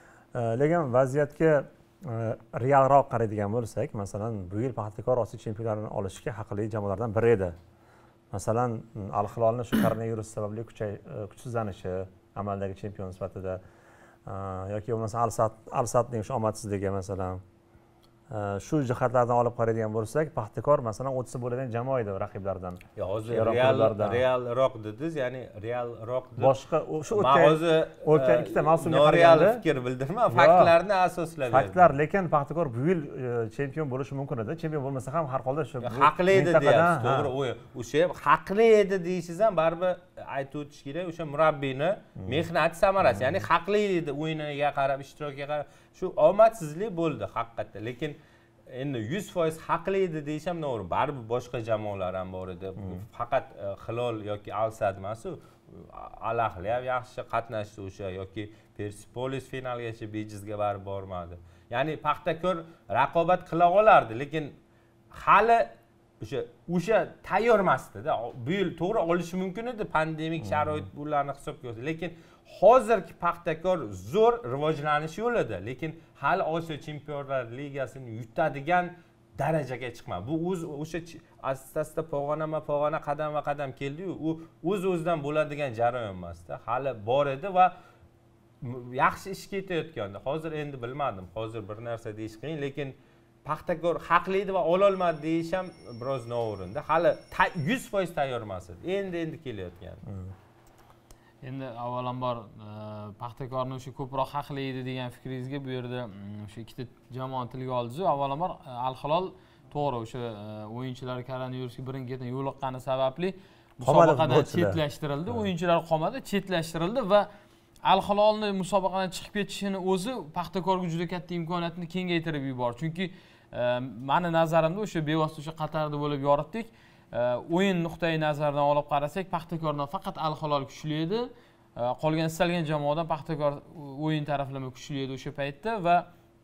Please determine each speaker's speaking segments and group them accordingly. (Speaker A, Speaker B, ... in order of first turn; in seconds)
Speaker A: 0.3-7.5, 8.3-13.6, 14.2-17.4, 18.3-24.2, 26.4-29.6, 30.3-30.7, 31.5-37.3, 42.2-42.5, 43.0-43.3, 70.5-70.8, 100.1-100.3, 113.8-115.5
Speaker B: 22.9-26.5, 27.1-31.9, 35.8-48.1, 48.7-64.5, 65.1-65.7, 66.2-87.7, 88.6-100.0
Speaker C: 101.4-117.3, 117.8-136.1